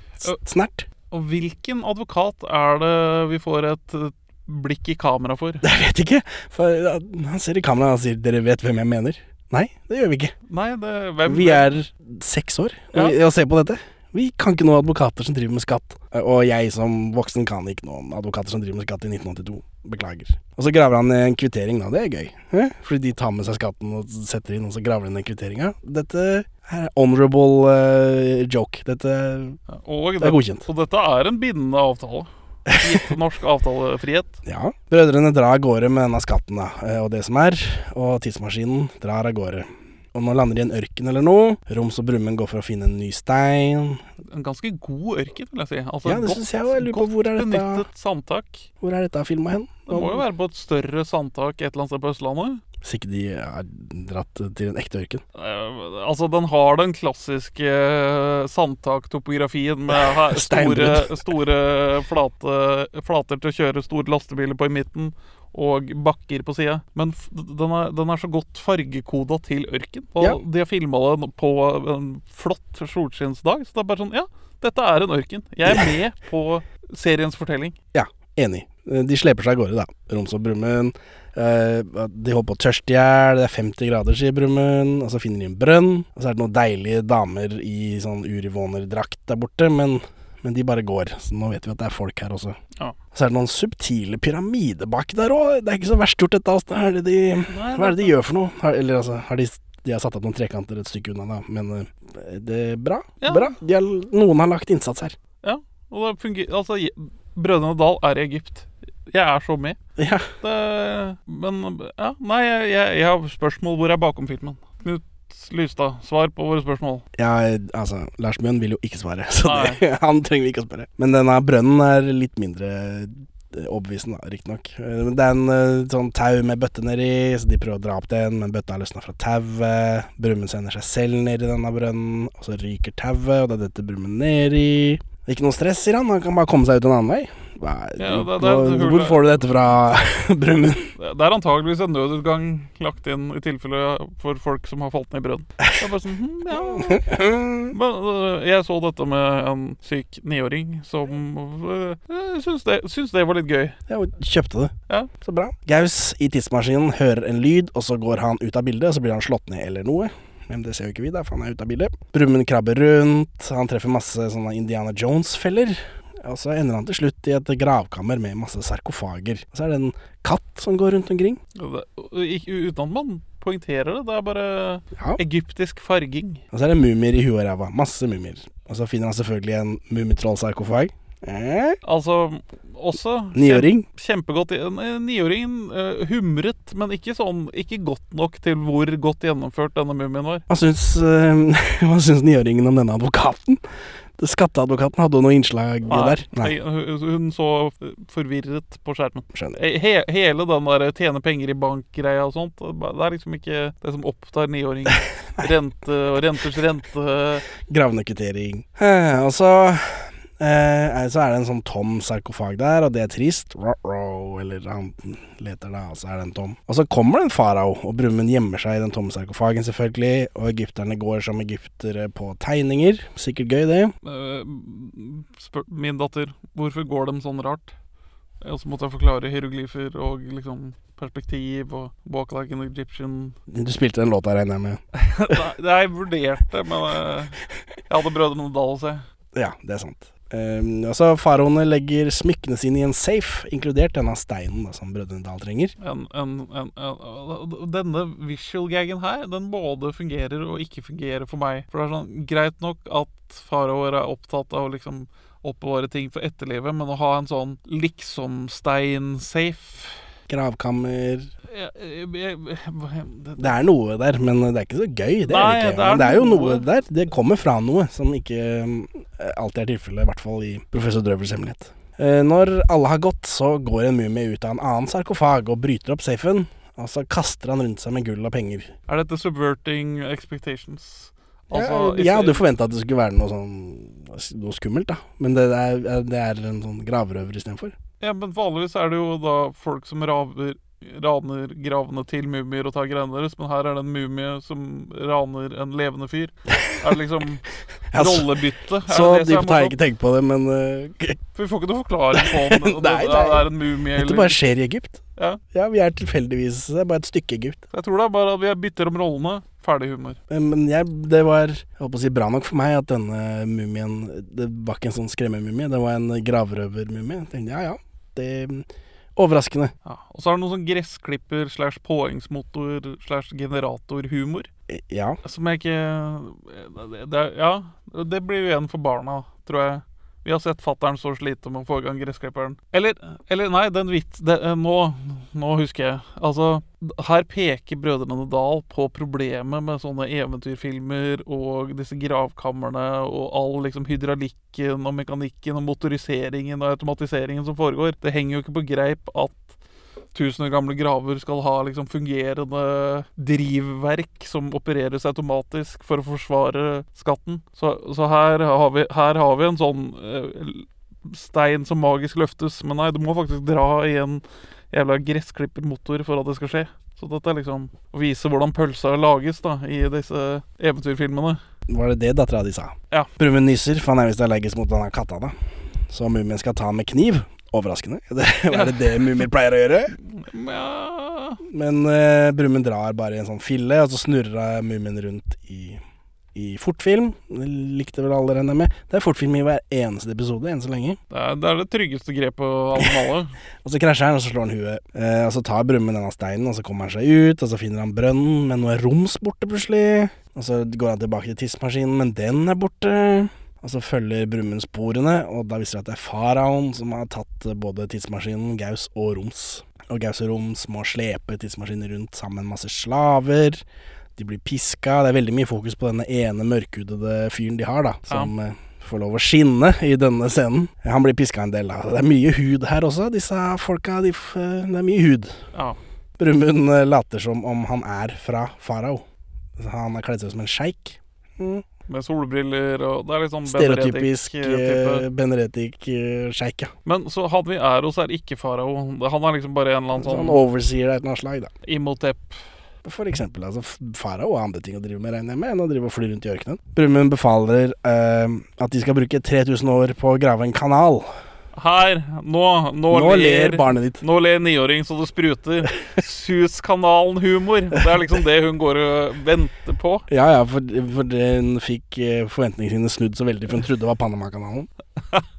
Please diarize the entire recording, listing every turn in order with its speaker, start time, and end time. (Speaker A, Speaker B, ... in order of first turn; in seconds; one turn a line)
Speaker A: 0.2-0.9
Speaker B: 1.1-5.6
Speaker A: 5.6-10.3
Speaker B: 10.5-11.8
Speaker A: 11.2-29.6
Speaker B: 29.7-34.4
Speaker A: 30.2-30.7
Speaker A: 32.7-33.1
Speaker A: 34.5-44.0
Speaker B: 44.3-48.7
Speaker A: 46.1-47.8
Speaker A: 48.8-50.2
Speaker B: 49.9-52.6
Speaker A: 52.8-55.2
Speaker B: 55.4-77.8
Speaker A: 59.9-61.2
Speaker A: 77.9-92.6
Speaker A: 93.1-105.2
Speaker B: 97.5-98.2
Speaker B: 103.2-103.6
Speaker B: 105.4-109.8
Speaker A: 110.0-110.3
Speaker B: 110.4-117.0
Speaker A: 117.2-140.9
Speaker B: 119.4-119.8
Speaker B: 138.0-139.8
Speaker B: 141.0-147.1
Speaker A: 146.5-147.7
Speaker B: 147.7-153.8
Speaker A: 153.9-171.4
Speaker B: 171.6-176.4
Speaker A: 175.0-175.2
Speaker A: 176.5-181.8
Speaker B: 181.8-190.4
Speaker A: 183.3-183.8
Speaker A: 190.5-193.6
Speaker A: 194.2-196.5
Speaker B: 195.9-207.4
Speaker A: 199.3-199.6
Speaker A: 207.7-223.9
Speaker B: 224.1-227.8
Speaker B: 228.4-233.4
Speaker A: 233.5-235.4
Speaker B: 234.9-237.4
Speaker B: 237.9-239.0
Speaker A: 239.3-245.7
Speaker B: 245.8-260.0
Speaker A: 260.3-261.3
Speaker B: 261.5-263.6
Speaker A: 263.4-278.7
Speaker B: 265.3-266.6
Speaker B: 278.9-282.5
Speaker A: 281.5-287.7
Speaker B: 288.0-299.8
Speaker A: 297.9-298.3
Speaker A: 298.9-301.2
Speaker B: 301.4-304.4
Speaker A: 302.2-305.0
Speaker A: 305.5-307.6
Speaker B: 307.7-310.2
Speaker A: 310.3-319.7
Speaker B: 319.9-324.5
Speaker A: 324.7-325.2
Speaker B: 325.2-349.4
Speaker B: 350.1-371.4
Speaker A: 371.7-375.3
Speaker A: 375.9-380.0
Speaker B: 378.5-379.3
Speaker B: 380.1-381.4
Speaker A: 381.5-385.8
Speaker A: 386.3-391.0
Speaker B: 391.1-393.3
Speaker A: 393.6-413.6
Speaker A: 414.2-425.4
Speaker A: 426.2-429.1
Speaker A: 429.6-431.6
Speaker B: 431.9-435.1
Speaker A: 433.4-436.7
Speaker B: 436.9-440.4
Speaker A: 440.0-441.5
Speaker B: 441.7-442.4
Speaker A: 442.9-451.1
Speaker B: 451.6-460.1
Speaker A: 452.9-454.0
Speaker A: 460.1-464.7